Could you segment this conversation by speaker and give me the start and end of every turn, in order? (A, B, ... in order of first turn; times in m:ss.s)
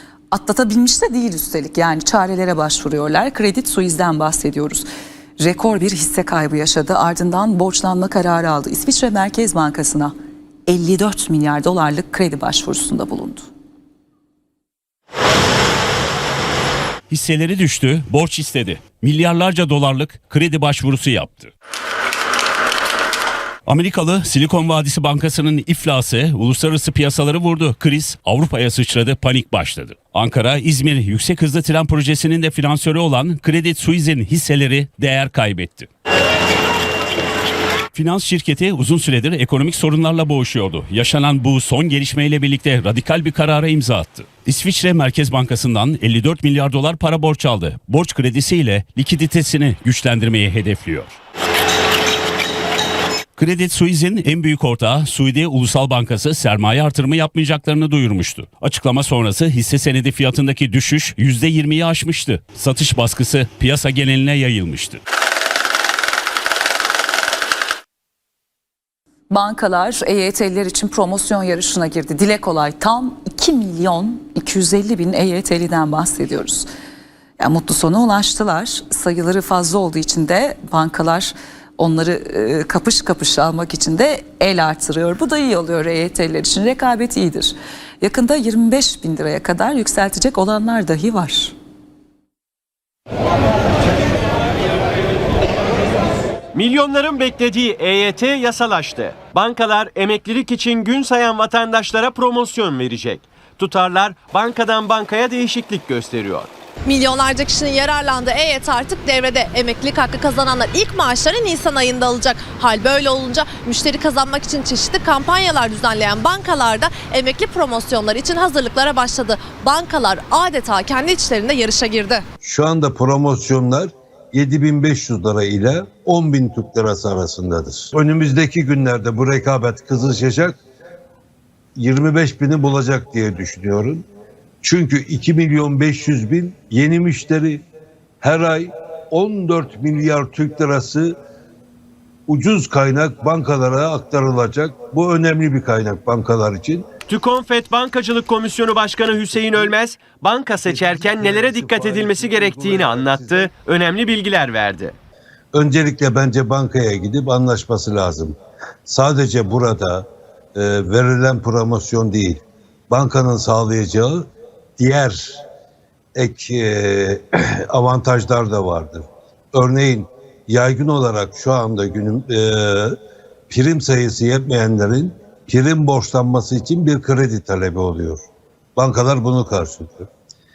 0:00.3-0:04.8 A
0:05.4-0:10.1 A
0:10.7-0:13.4 A
0:17.1-0:21.5 B
0:23.7-0:35.9 B
0:37.9-0:51.2 B
0:53.4-1:05.0 B
1:09.3-1:16.7 A
1:17.4-1:31.5 A
1:36.6-1:46.5 C
1:46.8-2:02.2 D
2:02.4-2:10.6 E
2:11.8-2:14.0 E
2:14.6-2:17.6 E
2:18.2-2:21.2 E
2:22.3-2:26.9 E
2:27.1-2:34.9 C
2:29.2-2:29.7 E
2:30.6-2:33.5 E
2:35.5-2:44.3 E
2:44.8-2:45.4 E
2:46.1-2:52.9 E
2:53.5-2:58.2 E
2:58.8-3:00.1 E